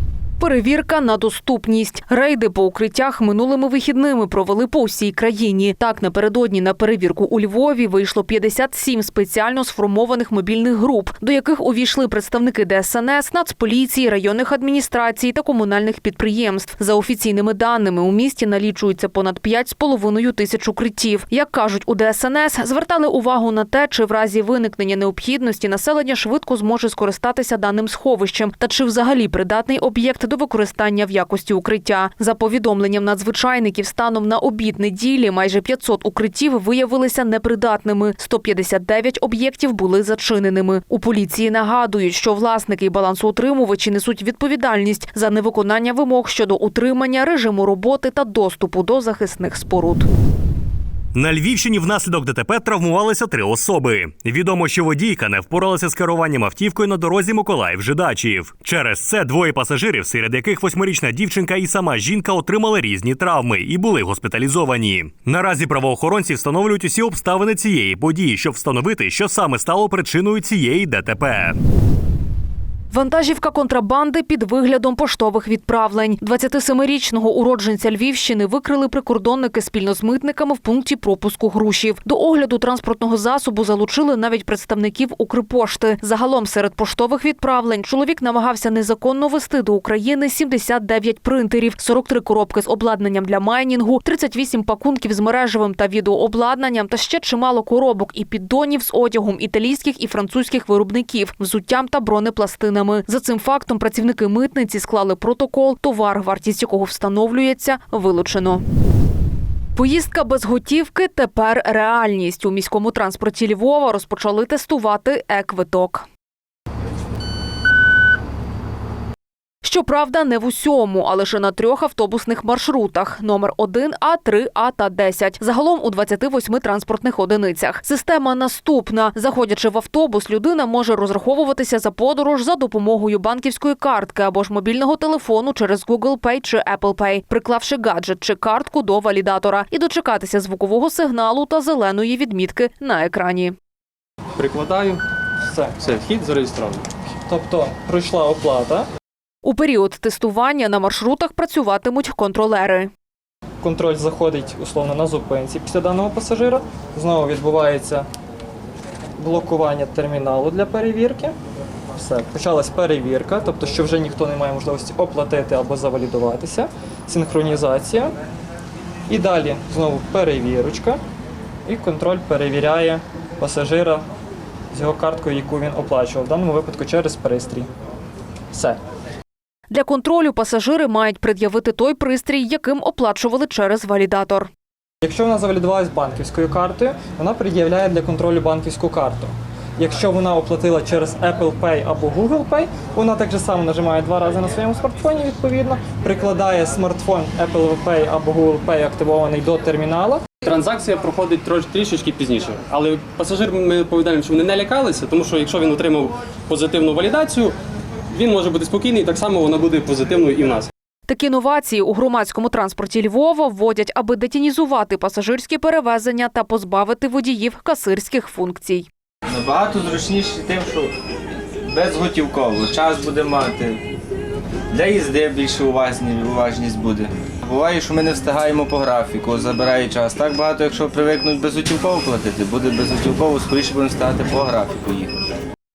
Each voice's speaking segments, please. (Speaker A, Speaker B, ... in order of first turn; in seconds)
Speaker A: 0.4-50.1, 72.9-108.6, 109.8-116.0, 119.6-143.5, 149.4-152.9, 179.7-184.5, 211.1-218.9
Speaker B: 51.1-71.6
Speaker C: 144.4-145.0, 145.8-146.8, 200.4-207.5, 208.1-210.7
Speaker D: 145.5-145.7, 147.2-148.8, 153.6-158.1, 159.2-161.3, 161.9-168.1, 169.1-171.0, 171.7-174.0, 174.7-177.7, 178.5-178.8, 185.0-200.2
Speaker E: 219.3-220.9, 221.7-223.8, 224.7-235.1